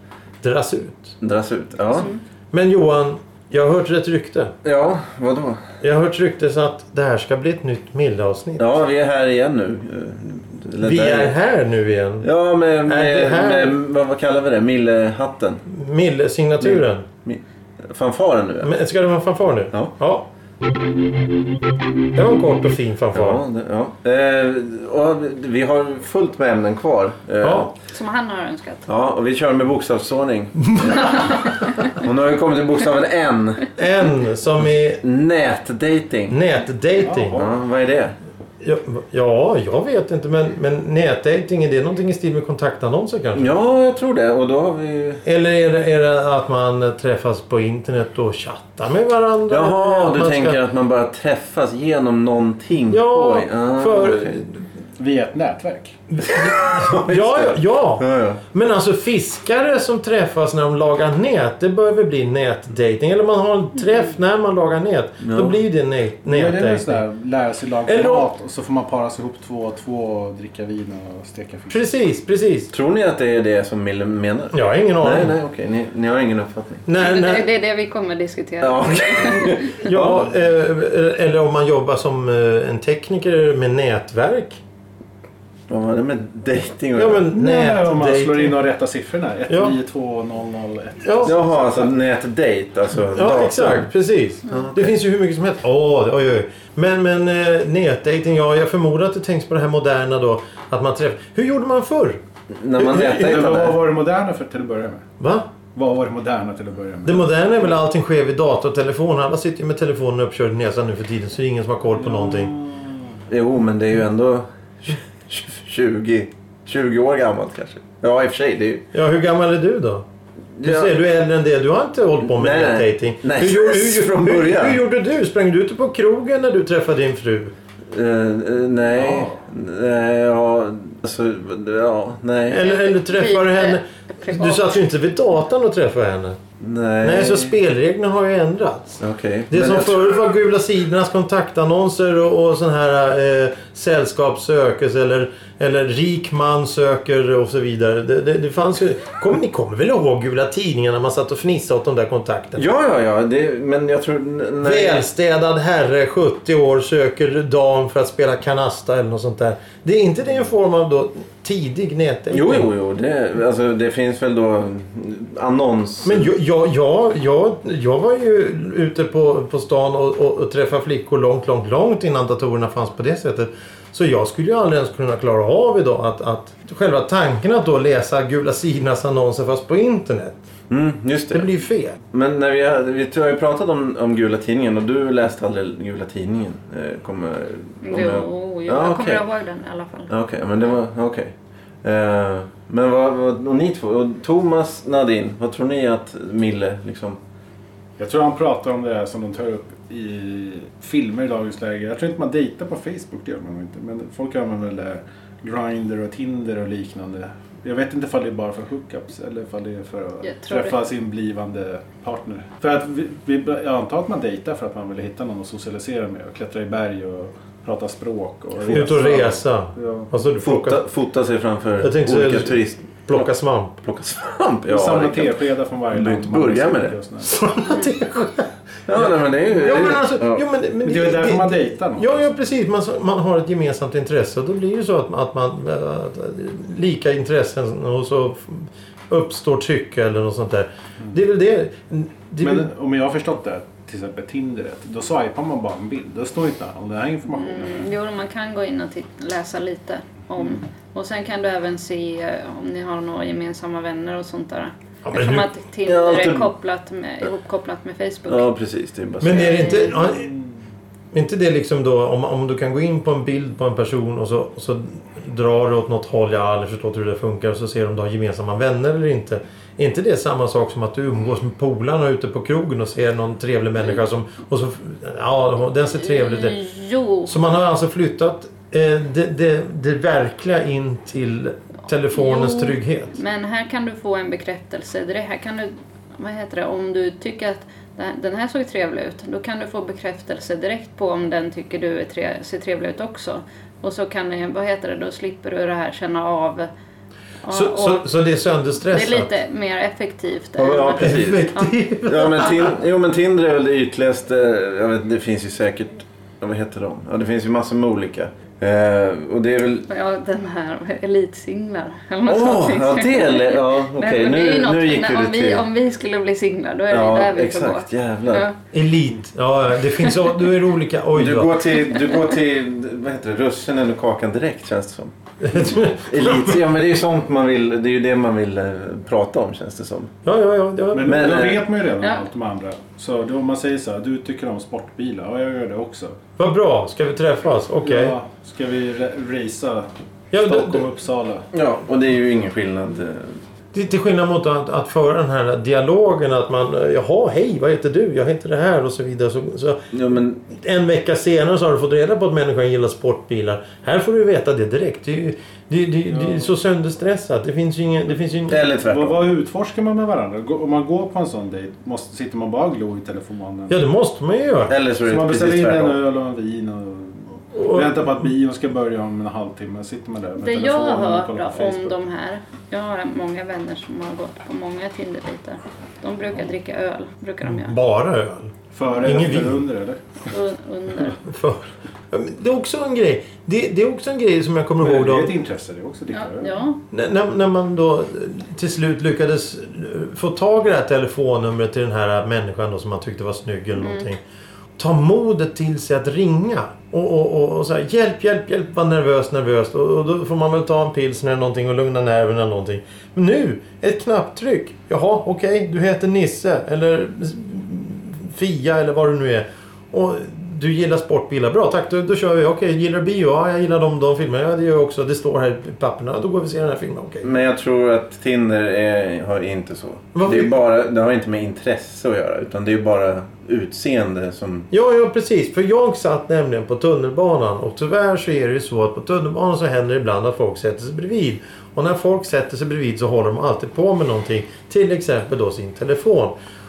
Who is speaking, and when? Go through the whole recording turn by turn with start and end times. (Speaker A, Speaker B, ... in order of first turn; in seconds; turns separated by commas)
Speaker A: 0.4-1.2, Speaker B: 1.2-2.1, Speaker A: 2.5-4.5, Speaker B: 4.6-5.7, Speaker A: 5.8-8.7, Speaker B: 8.6-11.3, Speaker A: 10.8-12.3, Speaker B: 12.2-15.6, Speaker A: 12.9-13.8, Speaker A: 15.7-17.1, Speaker B: 16.6-18.7, Speaker A: 18.6-20.3, Speaker A: 22.1-23.4, Speaker B: 23.1-27.7, Speaker A: 27.4-27.7, Speaker C: 27.9-28.9, Speaker B: 28.9-33.7, Speaker A: 30.7-31.7, Speaker A: 33.8-35.0, Speaker B: 35.0-36.4, Speaker A: 36.3-37.4, Speaker D: 37.0-37.5, Speaker B: 37.3-38.1, Speaker A: 38.6-43.5, Speaker B: 43.3-45.2, Speaker A: 45.2-50.6, Speaker B: 49.5-54.4, Speaker A: 52.9-54.6, Speaker D: 55.0-56.0, Speaker A: 56.1-67.0, Speaker B: 56.2-58.4, Speaker B: 65.2-65.6, Speaker D: 66.3-71.9, Speaker A: 67.9-68.3, Speaker A: 71.7-72.7, Speaker B: 72.7-76.8, Speaker A: 74.5-75.4, Speaker A: 76.9-77.5, Speaker C: 77.0-79.9, Speaker B: 78.6-80.3, Speaker A: 79.3-84.6, Speaker B: 85.7-87.3, Speaker A: 87.0-88.6, Speaker D: 87.3-91.9, Speaker A: 89.5-89.8, Speaker A: 91.0-91.3, Speaker B: 91.2-93.9, Speaker A: 93.1-102.2, Speaker B: 94.5-95.0, Speaker B: 102.5-103.8, Speaker D: 102.8-105.0, Speaker A: 105.2-105.5, Speaker D: 105.8-107.3, Speaker A: 107.1-112.5, Speaker D: 112.0-113.0, Speaker B: 113.3-118.9, Speaker A: 118.9-120.0, Speaker B: 120.6-120.9, Speaker A: 120.6-127.5, Speaker B: 122.2-124.8, Speaker B: 127.9-132.7, Speaker D: 128.9-129.3, Speaker A: 132.5-136.4, Speaker C: 132.6-134.6, Speaker B: 136.6-137.6, Speaker A: 137.0-139.0, Speaker B: 139.0-140.2, Speaker A: 139.5-152.7, Speaker B: 152.6-155.1, Speaker A: 154.6-162.7, Speaker B: 162.3-166.3, Speaker A: 166.0-180.4, Speaker B: 180.7-181.5, Speaker A: 181.3-182.0, Speaker B: 182.1-189.2, Speaker C: 187.8-190.1, Speaker B: 190.1-197.2, Speaker D: 198.0-220.1, Speaker C: 210.2-210.7, Speaker A: 218.7-220.8, Speaker B: 220.4-223.3, Speaker A: 221.8-223.7, Speaker B: 223.8-225.3, Speaker D: 224.7-227.4, Speaker B: 225.9-227.0, Speaker A: 227.3-228.5, Speaker B: 228.9-230.4, Speaker A: 229.5-242.7, Speaker D: 230.8-232.3, Speaker D: 242.4-247.9, Speaker C: 247.3-258.4, Speaker A: 255.1-255.5, Speaker B: 255.8-256.5, Speaker B: 258.3-259.9, Speaker A: 259.2-260.3, Speaker C: 259.3-260.1, Speaker D: 260.1-260.4, Speaker A: 261.1-276.6, Speaker C: 276.0-277.3, Speaker A: 277.3-283.1, Speaker C: 282.1-296.7, Speaker C: 297.4-298.1, Speaker A: 297.5-299.3, Speaker C: 298.9-301.7, Speaker B: 300.6-301.5, Speaker A: 301.0-302.7, Speaker B: 302.1-309.9, Speaker C: 309.9-318.6, Speaker B: 312.3-315.6, Speaker B: 316.9-318.5, Speaker A: 318.7-321.7, Speaker B: 321.1-330.1, Speaker C: 321.9-322.2, Speaker A: 325.4-326.6, Speaker A: 330.2-331.5, Speaker D: 330.9-336.2, Speaker B: 331.1-331.6, Speaker C: 332.0-332.2, Speaker A: 336.4-338.2, Speaker D: 337.8-341.5, Speaker A: 340.3-340.9, Speaker B: 341.5-343.4, Speaker A: 343.7-349.9, Speaker B: 349.9-350.4, Speaker A: 350.4-358.7, Speaker D: 356.1-356.5, Speaker B: 358.5-359.2, Speaker D: 358.9-363.8, Speaker A: 363.7-364.8, Speaker B: 364.7-366.0, Speaker D: 365.0-371.9, Speaker A: 367.6-368.1, Speaker C: 370.4-377.8, Speaker A: 377.4-379.6, Speaker D: 378.7-380.0, Speaker C: 380.3-381.2, Speaker A: 381.1-385.4, Speaker D: 384.8-386.6, Speaker C: 386.1-386.8, Speaker A: 386.9-394.2, Speaker C: 393.8-394.1, Speaker A: 394.8-417.3, Speaker B: 417.2-424.7, Speaker A: 420.1-420.6, Speaker A: 424.7-436.4